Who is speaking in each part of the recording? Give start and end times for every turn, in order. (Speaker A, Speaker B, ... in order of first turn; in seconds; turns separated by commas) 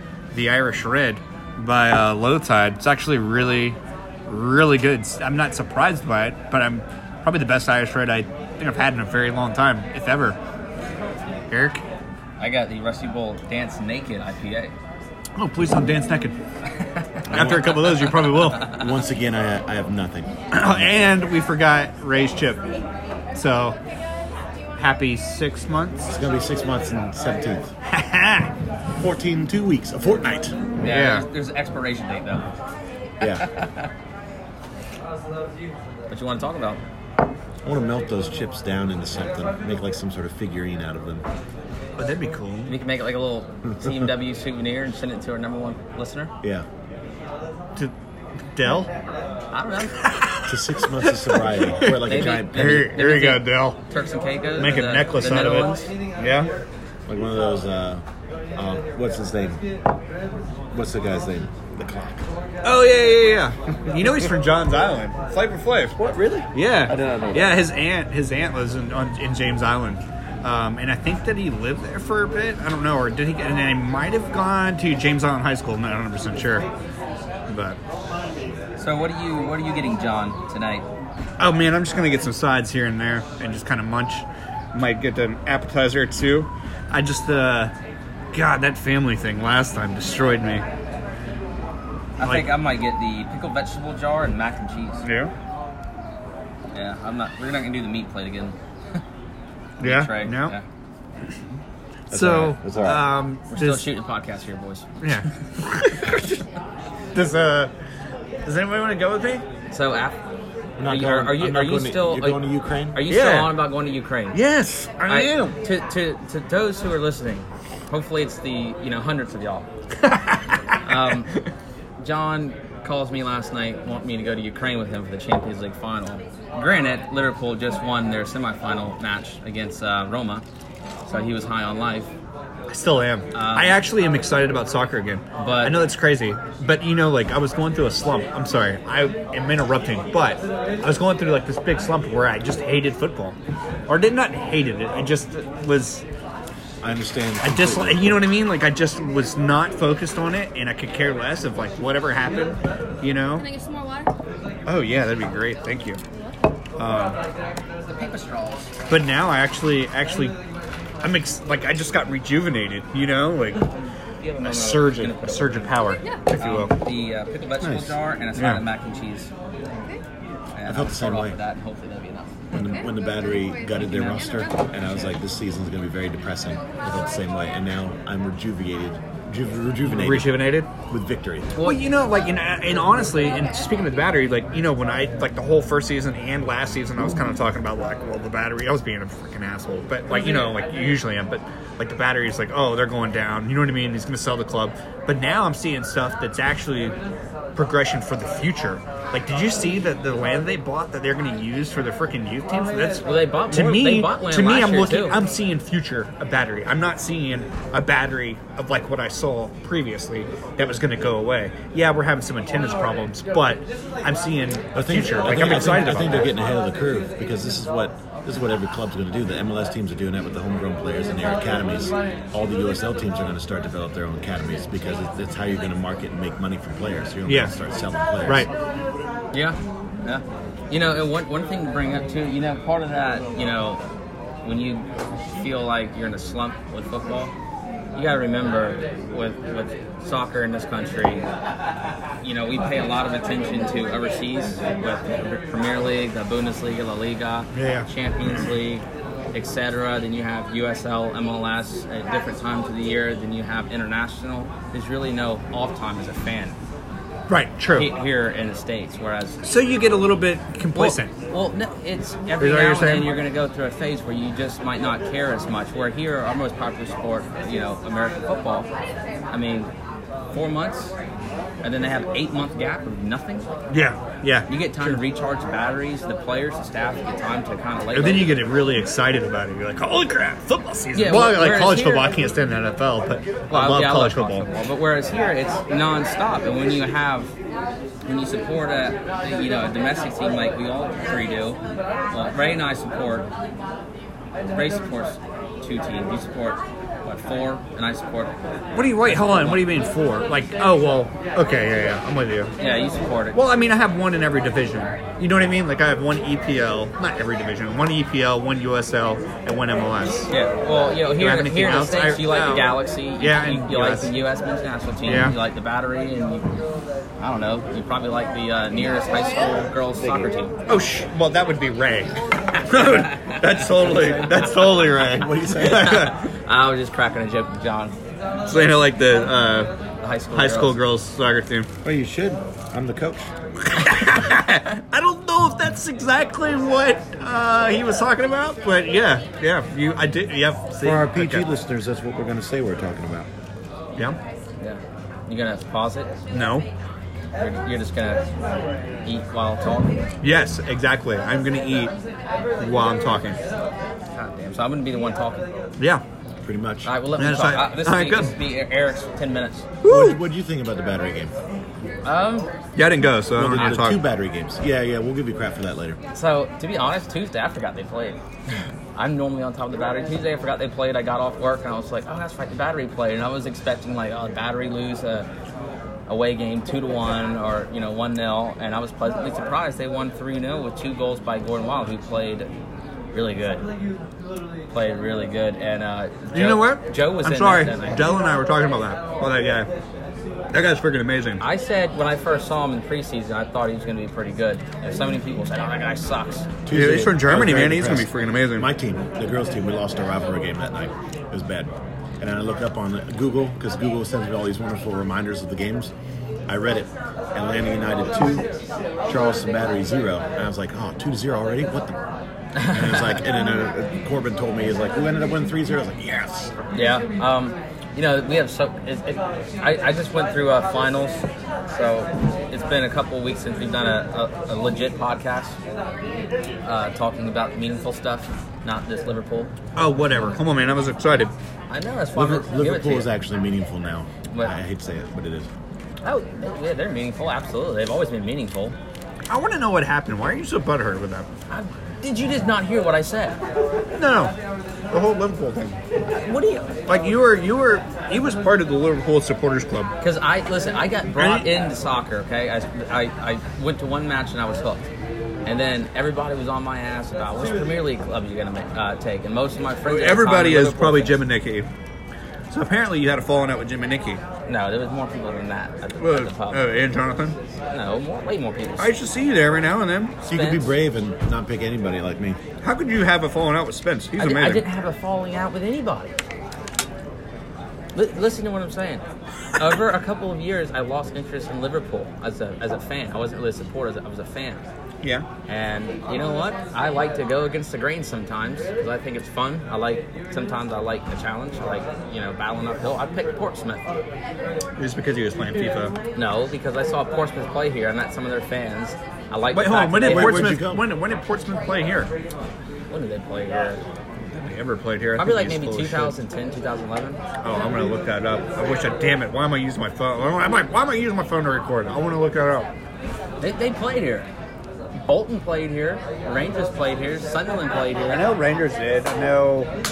Speaker A: 0.3-10.4, Speaker A: 11.5-11.8, Speaker B: 12.4-14.7, Speaker A: 15.4-16.4, Speaker B: 16.8-18.3, Speaker C: 17.3-17.7, Speaker A: 17.3-18.7, Speaker C: 18.5-20.9, Speaker A: 20.5-22.6, Speaker A: 23.3-23.8, Speaker A: 24.8-26.1, Speaker C: 26.1-27.7, Speaker A: 27.9-28.5, Speaker C: 29.0-30.7, Speaker A: 30.8-31.2, Speaker B: 30.8-32.6, Speaker C: 33.2-33.5, Speaker B: 33.2-33.9, Speaker B: 36.1-36.8, Speaker C: 37.6-41.2, Speaker A: 42.0-42.7, Speaker B: 42.7-46.3, Speaker A: 48.5-48.9, Speaker B: 49.5-50.1, Speaker A: 50.0-53.8, Speaker C: 50.5-52.7, Speaker B: 52.0-55.9, Speaker A: 54.6-56.5, Speaker C: 57.1-58.0, Speaker C: 58.5-59.6, Speaker C: 60.7-62.2, Speaker A: 62.6-66.0, Speaker C: 65.9-67.6, Speaker A: 66.5-76.7, Speaker A: 77.5-77.8, Speaker B: 78.8-80.8, Speaker A: 81.4-87.7, Speaker A: 88.3-90.6, Speaker B: 92.2-95.0, Speaker A: 92.2-92.5, Speaker A: 95.0-95.3, Speaker B: 96.7-99.0, Speaker B: 99.8-100.6, Speaker A: 99.8-100.5, Speaker C: 102.1-103.1, Speaker A: 102.1-103.8, Speaker B: 103.5-105.0, Speaker A: 105.0-106.4, Speaker A: 107.1-107.7, Speaker A: 108.4-109.4, Speaker B: 109.7-110.2, Speaker C: 110.8-113.0, Speaker B: 110.8-114.4, Speaker A: 113.1-113.7, Speaker A: 114.3-115.6, Speaker B: 115.1-119.7, Speaker A: 120.0-120.8, Speaker B: 120.8-121.3, Speaker B: 122.0-130.4, Speaker B: 131.1-132.1, Speaker A: 132.7-143.3, Speaker B: 133.3-133.8, Speaker B: 135.4-135.8, Speaker A: 143.9-146.0, Speaker C: 146.8-148.3, Speaker A: 147.4-153.5, Speaker D: 153.3-154.1, Speaker A: 154.7-156.0, Speaker A: 156.8-157.2, Speaker B: 157.8-158.7, Speaker A: 158.9-160.3, Speaker A: 161.0-163.7, Speaker B: 163.7-165.7, Speaker A: 164.4-166.7, Speaker B: 166.4-169.3, Speaker C: 167.6-168.0, Speaker A: 168.3-168.6, Speaker D: 169.7-170.0, Speaker B: 170.6-172.3, Speaker C: 170.7-171.4, Speaker D: 172.5-174.7, Speaker C: 172.5-181.6, Speaker A: 179.8-180.7, Speaker B: 181.6-181.8, Speaker A: 181.6-196.9, Speaker A: 197.5-216.3, Speaker B: 203.0-205.2, Speaker C: 214.7-228.5, Speaker A: 227.2-227.5, Speaker A: 228.2-228.5, Speaker B: 229.3-233.8, Speaker B: 234.4-237.3, Speaker B: 237.9-241.3, Speaker B: 242.2-256.6, Speaker A: 247.5-247.9, Speaker A: 257.3-257.9, Speaker B: 257.7-259.4, Speaker A: 259.4-261.1, Speaker B: 260.7-268.7, Speaker A: 262.4-263.1, Speaker B: 269.3-269.7, Speaker B: 270.3-270.9, Speaker B: 271.6-273.5, Speaker A: 273.7-275.0, Speaker B: 274.5-278.4, Speaker A: 277.9-284.5, Speaker B: 280.9-282.1, Speaker B: 283.5-287.3, Speaker B: 288.1-291.6, Speaker B: 292.1-293.3, Speaker B: 294.5-299.7, Speaker A: 298.7-302.5, Speaker B: 302.6-303.4, Speaker A: 303.3-310.3, Speaker B: 310.3-316.6, Speaker A: 311.1-314.1, Speaker A: 315.1-315.4, Speaker B: 317.2-320.6, Speaker C: 320.0-320.3, Speaker A: 320.7-326.2, Speaker B: 322.7-324.1, Speaker C: 324.9-326.0, Speaker B: 325.4-327.9, Speaker A: 328.5-329.7, Speaker B: 330.0-330.8, Speaker A: 330.3-331.7, Speaker C: 331.8-333.3, Speaker A: 333.6-341.5, Speaker C: 340.8-343.3, Speaker B: 344.6-346.1, Speaker A: 346.3-346.7, Speaker B: 347.4-348.3, Speaker B: 349.0-350.0, Speaker A: 350.2-351.9, Speaker A: 352.6-353.4, Speaker B: 354.1-355.5, Speaker C: 356.4-356.9, Speaker B: 356.8-359.7, Speaker A: 357.2-358.3, Speaker A: 359.8-360.2, Speaker C: 359.8-361.3, Speaker B: 362.0-362.5, Speaker A: 362.8-364.0, Speaker C: 363.3-366.0, Speaker B: 366.1-368.2, Speaker B: 368.9-375.3, Speaker B: 376.1-382.5, Speaker B: 383.1-383.7, Speaker B: 384.7-388.1, Speaker A: 386.3-389.7, Speaker A: 390.5-391.4, Speaker B: 391.4-396.5, Speaker C: 396.6-405.9, Speaker A: 396.7-398.7, Speaker C: 406.5-408.5, Speaker C: 409.1-412.0, Speaker B: 412.6-413.2, Speaker C: 412.6-416.5, Speaker B: 416.7-425.6, Speaker B: 426.6-429.5, Speaker A: 429.8-431.3, Speaker B: 431.7-433.1, Speaker C: 432.1-435.5, Speaker B: 434.3-434.6, Speaker B: 436.0-438.8, Speaker A: 439.3-441.3, Speaker B: 441.5-443.4, Speaker A: 443.9-444.3, Speaker A: 444.9-445.8, Speaker B: 446.1-446.8, Speaker A: 446.9-449.9, Speaker B: 450.0-454.9, Speaker A: 451.1-451.5, Speaker B: 455.4-461.2, Speaker A: 459.8-461.7, Speaker A: 462.5-464.2, Speaker B: 464.5-466.6, Speaker A: 466.0-467.4, Speaker B: 467.7-468.9, Speaker A: 468.8-470.1, Speaker B: 470.2-470.7, Speaker C: 470.2-472.4, Speaker A: 472.6-474.6, Speaker B: 474.1-476.2, Speaker B: 477.9-479.0, Speaker B: 479.6-484.7, Speaker B: 485.5-494.0, Speaker A: 494.8-495.9, Speaker B: 496.1-500.5, Speaker A: 499.5-502.1, Speaker C: 500.0-500.9, Speaker B: 502.9-503.8, Speaker A: 504.3-506.1, Speaker B: 505.1-507.2, Speaker A: 507.4-512.7, Speaker B: 513.4-514.3, Speaker B: 514.9-518.2, Speaker A: 518.1-519.7